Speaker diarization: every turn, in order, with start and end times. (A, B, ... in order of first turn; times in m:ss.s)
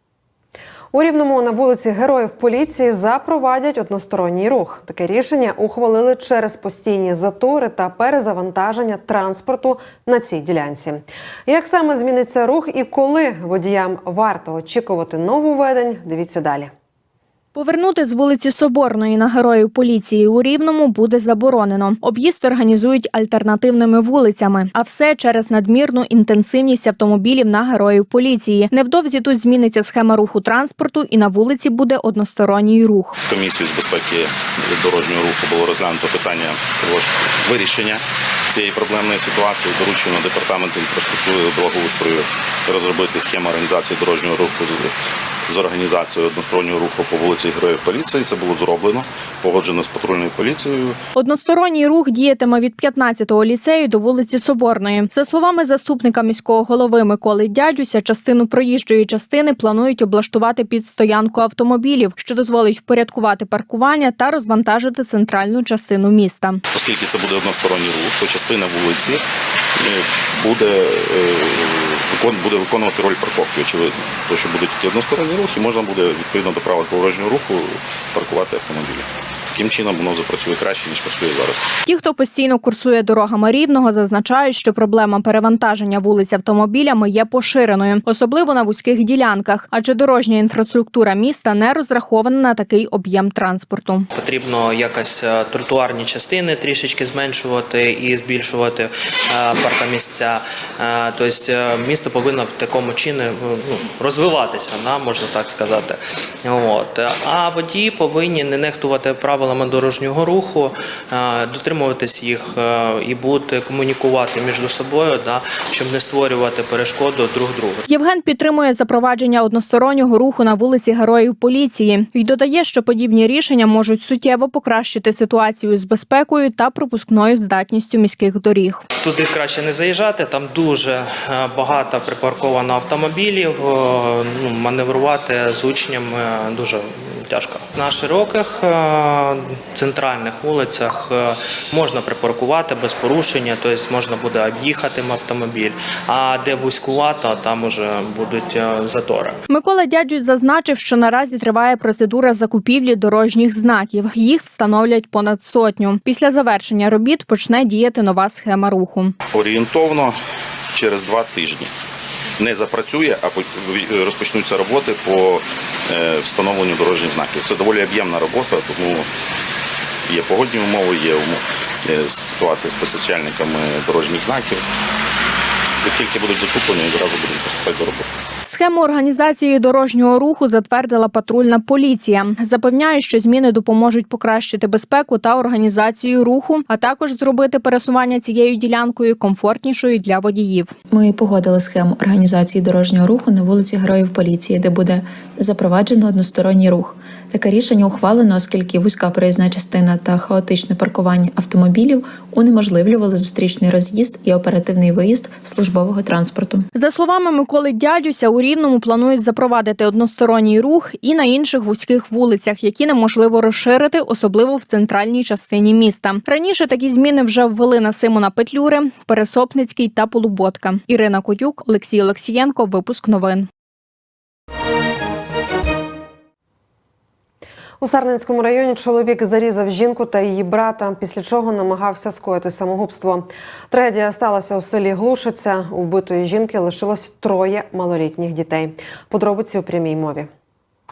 0:00.9-0:16.7 A
0:17.5-0:33.2 B
0:33.3-0:44.9 C
0:45.5-0:51.0 C
0:51.2-1:06.6 B
1:06.7-1:09.2 C
1:09.8-1:21.7 C
1:21.8-1:34.0 B
1:34.1-1:57.8 D
1:57.9-2:08.8 B
2:09.0-2:29.4 D
2:29.5-2:39.1 B
2:39.3-2:40.2 C
2:40.7-2:41.7 C
2:42.4-2:49.1 C
2:50.0-2:54.6 C
2:55.8-2:58.1 C
2:58.4-3:10.7 B
3:10.9-3:26.6 E
3:26.7-3:43.5 B
3:47.8-4:00.3 A